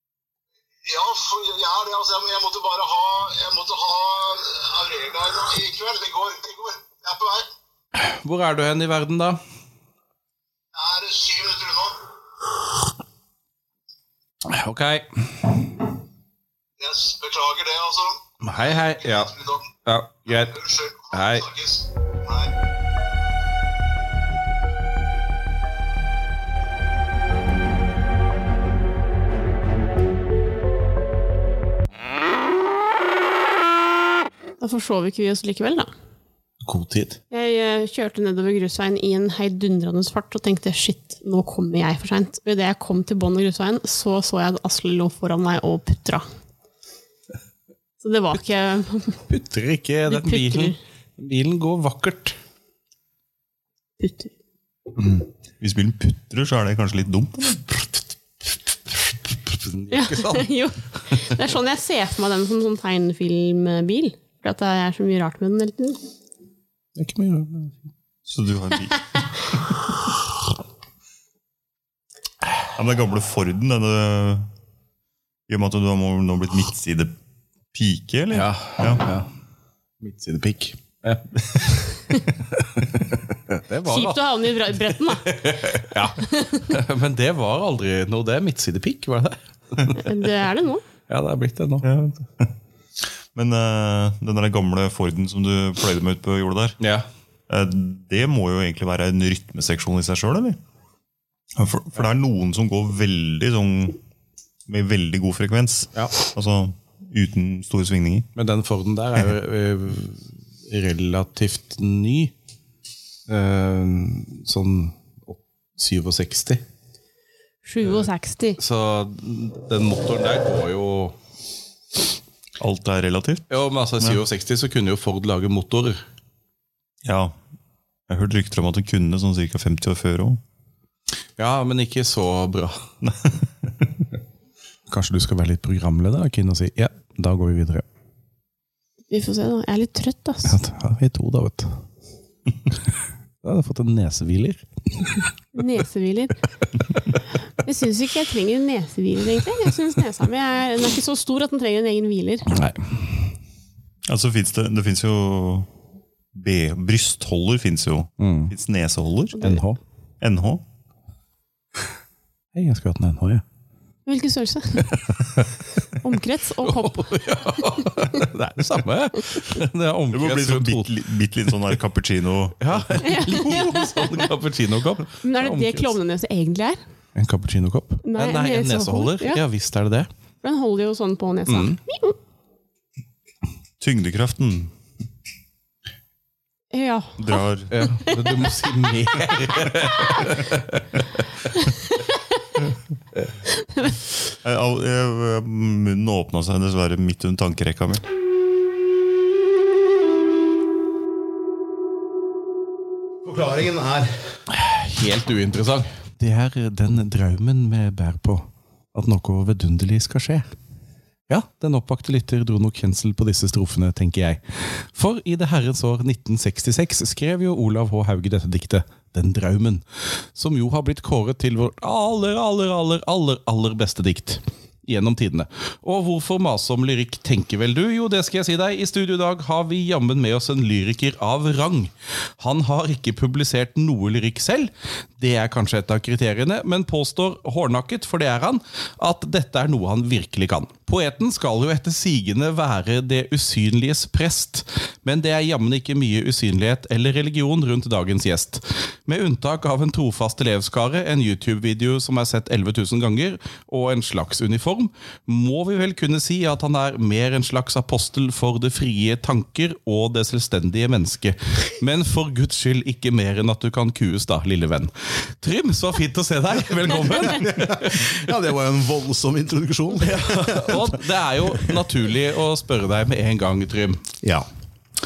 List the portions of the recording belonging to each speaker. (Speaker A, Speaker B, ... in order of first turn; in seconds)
Speaker A: 0.8-7.5, 10.7-12.0, 16.8-18.2, 19.0-19.6, 20.4-22.5
Speaker B: 8.0-9.4, 14.5-15.5, 18.4-19.3, 19.8-20.6, 21.1-21.5, 36.6-37.2, 49.3-52.4, 59.5-60.5, 67.0-67.8, 78.3-79.3, 80.0-81.2, 82.5-84.2, 85.2-90.0, 91.1-91.9, 96.8-97.1, 108.3-112.3, 113.3-116.6, 118.6-121.1, 123.5-126.0, 131.4-132.8, 134.9-137.8, 140.4-141.7, 143.4-144.6, 152.5-153.1, 158.2-158.5, 159.4-159.8, 162.5-163.4, 164.9-165.4, 166.6-170.9, 172.6-175.9, 177.1-180.1, 181.5-181.8, 187.7-191.2, 204.5-210.5, 211.3-268.1, 270.0-274.0
Speaker C: 34.6-35.9, 37.3-46.2, 48.0-49.2, 50.1-50.8, 54.0-54.3, 59.9-66.0, 83.8-85.5, 86.2-86.7, 89.9-90.8, 117.7-118.6, 139.1-140.6, 145.5-146.4, 147.6-152.5, 159.3-159.6, 164.1-164.9, 166.0-167.1, 173.0-174.3, 175.2-176.8, 178.0-179.4, 180.4-182.2, 186.7-187.4, 188.1-188.4, 193.6-193.9
Speaker D: 55.0-57.9, 68.3-69.8, 72.7-74.5, 75.5-77.1, 77.7-79.0, 91.8-92.5, 93.3-96.8, 97.5-100.6, 101.5-104.0, 104.7-108.3, 122.6-124.2, 127.0-127.3, 128.1-130.4, 133.0-133.9, 154.1-155.7, 156.3-159.4, 160.2-160.6, 170.1-173.1, 183.8-184.7, 187.2-187.7, 194.4-198.0
Speaker E: 203.2-204.3, 267.1-271.8